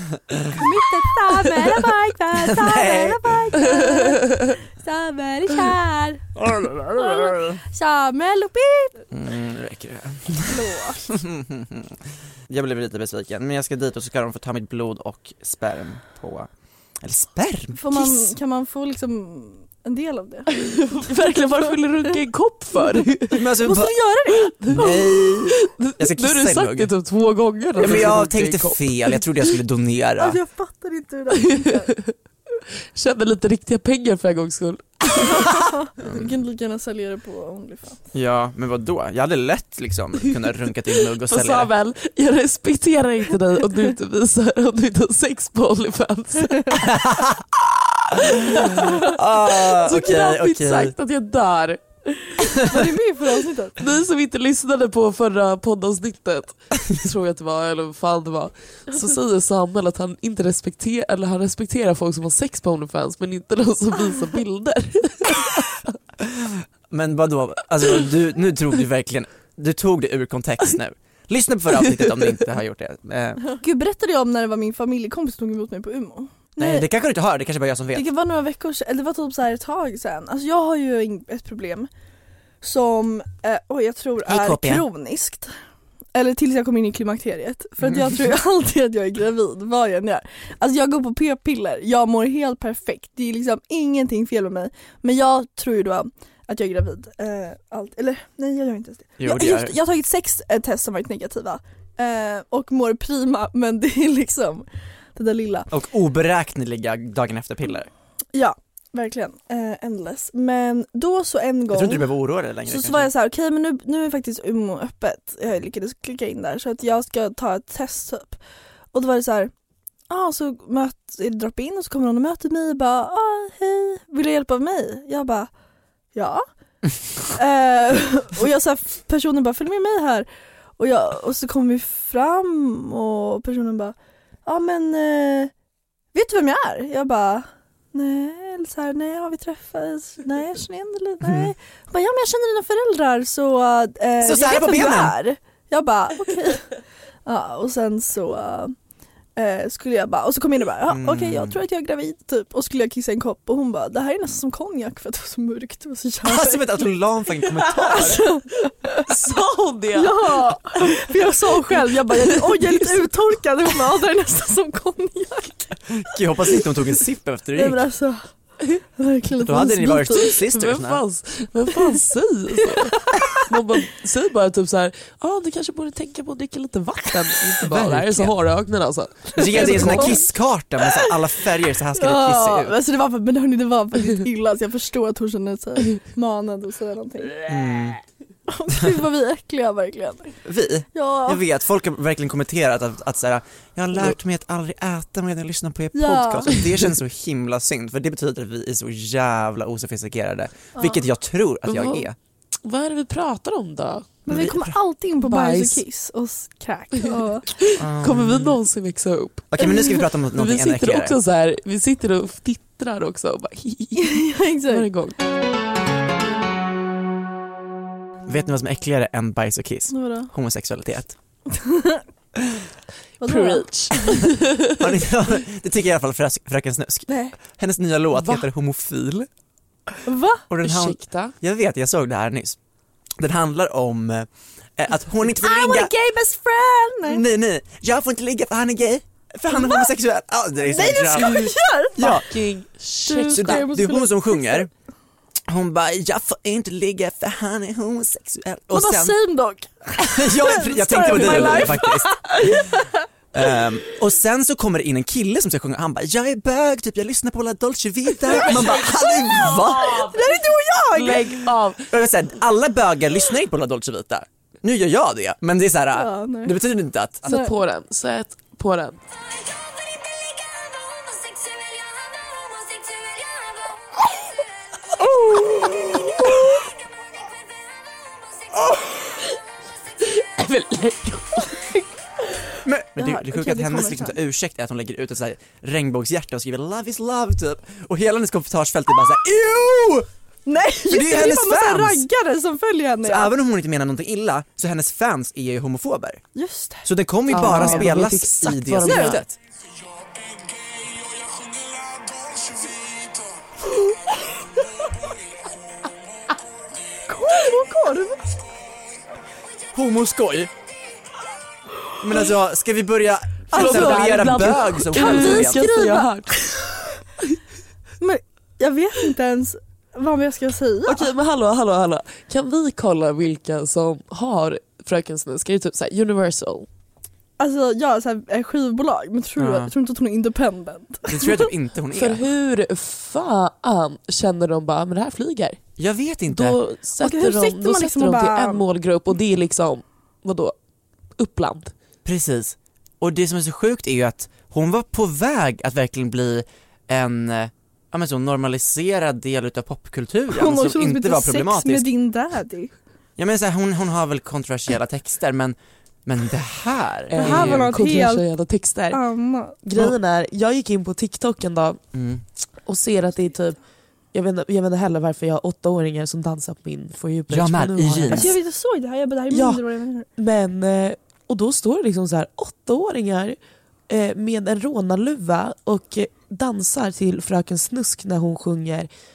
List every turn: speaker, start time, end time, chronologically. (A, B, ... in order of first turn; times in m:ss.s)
0:00.3-0:00.6 A
0:00.6-0:06.3 B
0:02.4-0:03.7 A
0:06.4-0:07.6 A
0:06.8-0:09.0 B
0:09.1-0:12.0 A
0:10.4-0:11.0 B
0:12.5-0:16.5 A
0:17.0-0:18.3 A
0:17.7-0:20.6 B
0:20.5-0:23.4 C
0:21.2-0:25.3 B
0:23.3-0:23.9 A
0:24.4-0:24.8 C
0:24.7-0:26.9 A
0:25.5-0:29.2 C
0:27.8-0:30.4 A
0:30.2-0:31.9 B
0:31.3-0:32.1 C
0:32.9-0:35.0 C
0:35.3-0:38.0 B
0:36.0-0:36.3 A
0:38.1-0:41.7 A
0:41.2-0:47.0 C
0:46.7-0:47.4 A
0:48.1-0:50.9 A
0:48.6-0:51.8 C
0:52.2-0:53.8 B
0:53.8-1:05.9 C
1:06.9-1:13.4 A
1:13.4-1:16.9 B
1:16.6-1:18.1 A
1:17.9-1:21.9 B
1:22.6-1:25.5 B
1:24.2-1:24.8 A
1:26.1-1:45.7 B
1:39.2-1:39.8 A
1:45.7-1:47.9 A
1:48.3-1:52.1 B
1:51.7-1:53.1 A
1:52.6-1:58.4 B
1:58.9-1:59.5 B
2:00.1-2:05.5 B
2:06.1-2:06.4 B
2:07.3-2:15.5 B
2:16.1-2:26.7 B
2:21.2-2:21.5 A
2:24.2-2:25.2 A
2:27.2-2:28.7 B
2:29.4-2:36.8 B
2:30.9-2:31.6 A
2:36.2-2:38.2 A
2:37.8-2:39.3 B
2:39.1-2:40.8 C
2:39.9-2:45.7 B
2:41.6-2:43.1 C
2:45.9-2:47.8 A
2:47.5-2:48.3 B
2:49.0-2:50.4 B
2:49.4-2:51.0 A
2:50.5-2:53.0 C
2:52.6-2:53.4 B
2:53.5-3:00.2 C
2:57.6-2:58.4 A
2:59.4-3:02.8 A
2:59.4-3:00.3 B
3:00.9-3:01.1 B
3:01.9-3:07.4 B
3:07.4-3:08.0 A
3:08.5-3:10.3 B
3:10.4-3:22.2 A
3:10.9-3:11.4 B
3:15.9-3:16.5 B
3:20.8-3:21.0 B
3:21.6-3:22.1 C
3:22.6-3:24.2 C
3:24.2-3:27.5 B
3:24.3-3:24.8 A
3:25.2-3:25.8 C
3:27.0-3:29.5 C
3:27.8-3:28.6 A
3:29.5-3:31.1 A
3:30.3-3:35.1 C
3:34.0-3:34.9 B
3:38.3-3:41.2 A
3:39.9-3:40.3 B
3:41.5-3:42.0 B
3:43.2-3:44.3 B
3:43.2-3:43.9 C
3:44.7-3:49.3 A
3:47.1-3:47.4 B
3:48.1-3:48.5 C
3:50.0-3:50.5 B
3:50.5-3:52.6 A
3:50.6-3:51.3 C
3:53.2-3:55.9 A
3:55.4-3:57.2 B
3:57.0-4:02.3 A
3:59.5-3:59.9 B
4:00.6-4:02.2 B
4:02.0-4:03.7 C
4:03.0-4:04.7 B
4:03.3-4:04.7 A
4:05.5-4:09.2 A
4:08.7-4:13.0 B
4:10.0-4:12.6 A
4:10.9-4:11.7 C
4:13.3-4:20.1 A
4:18.3-4:18.9 B
4:18.4-4:19.0 C
4:19.4-4:21.5 B
4:19.8-4:20.4 C
4:20.9-4:21.8 C
4:21.8-4:27.3 A
4:26.0-4:26.6 B
4:27.2-4:27.6 B
4:27.3-4:29.0 C
4:35.1-4:36.3 B
4:40.1-4:41.5 C
4:42.6-4:50.1 A
4:43.0-4:44.2 B
4:50.4-4:53.3 B
4:50.9-4:52.0 A
4:53.0-4:56.2 A
4:56.3-4:56.8 B
4:56.8-4:59.4 A
4:57.3-4:59.2 C
4:57.4-4:57.9 B
5:07.1-5:08.3 B
5:09.7-5:10.5 A
5:12.0-5:15.6 A
5:13.5-5:16.3 C
5:13.5-5:16.7 B
5:18.0-5:21.1 B
5:20.8-5:26.7 C
5:27.4-5:31.5 B
5:29.4-5:29.7 A
5:31.1-5:32.3 A
5:31.9-5:35.6 C
5:35.8-5:36.6 A
5:36.3-5:40.5 C
5:37.0-5:38.6 B
5:41.2-5:41.7 C
5:42.0-5:51.9 A
5:50.3-5:52.7 B
5:53.2-5:57.7 A
5:57.1-5:59.0 C
5:57.2-5:58.2 B
5:58.9-5:59.8 B
5:59.6-6:01.8 C
6:01.9-6:02.2 A
6:02.6-6:03.6 C
6:04.1-6:08.4 C
6:07.3-6:08.4 A
6:08.1-6:10.1 B
6:09.3-6:09.6 C
6:10.2-6:13.4 C
6:13.9-6:18.9 C